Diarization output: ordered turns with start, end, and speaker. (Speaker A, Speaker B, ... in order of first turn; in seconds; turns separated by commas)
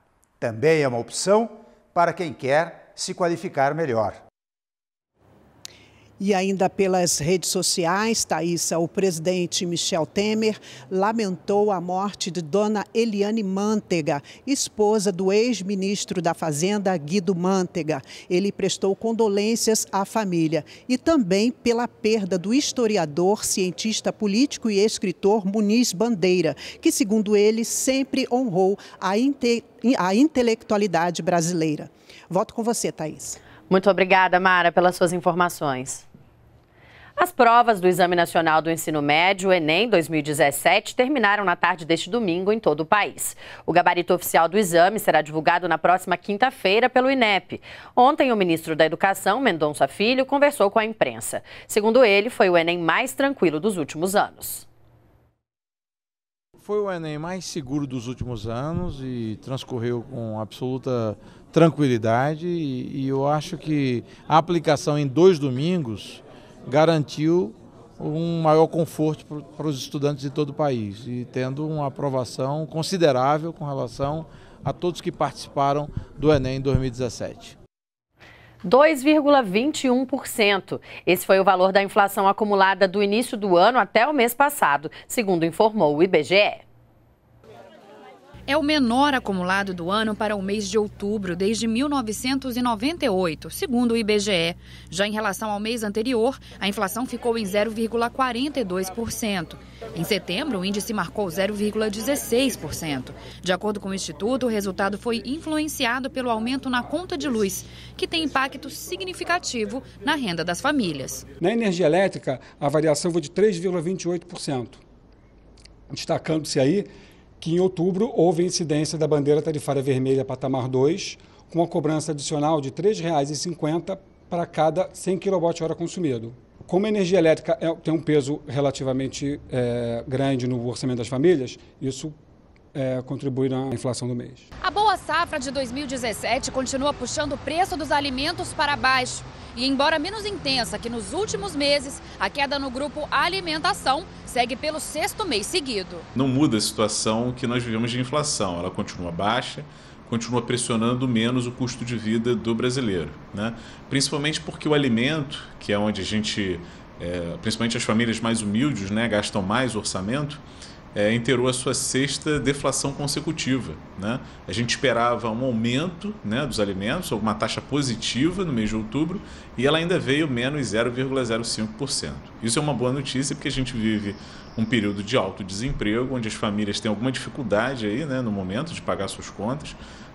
Speaker A: 0.4-4.2, Speaker B: 6.2-33.4, Speaker C: 33.7-36.0, Speaker C: 37.2-54.6, Speaker D: 56.6-77.6, Speaker C: 78.6-86.6, Speaker E: 88.5-111.2, Speaker F: 111.4-114.8, Speaker F: 115.9-116.9, Speaker F: 117.4-132.2, Speaker F: 132.7-134.5, Speaker E: 134.6-146.1, Speaker G: 146.1-160.4, Speaker G: 160.9-179.8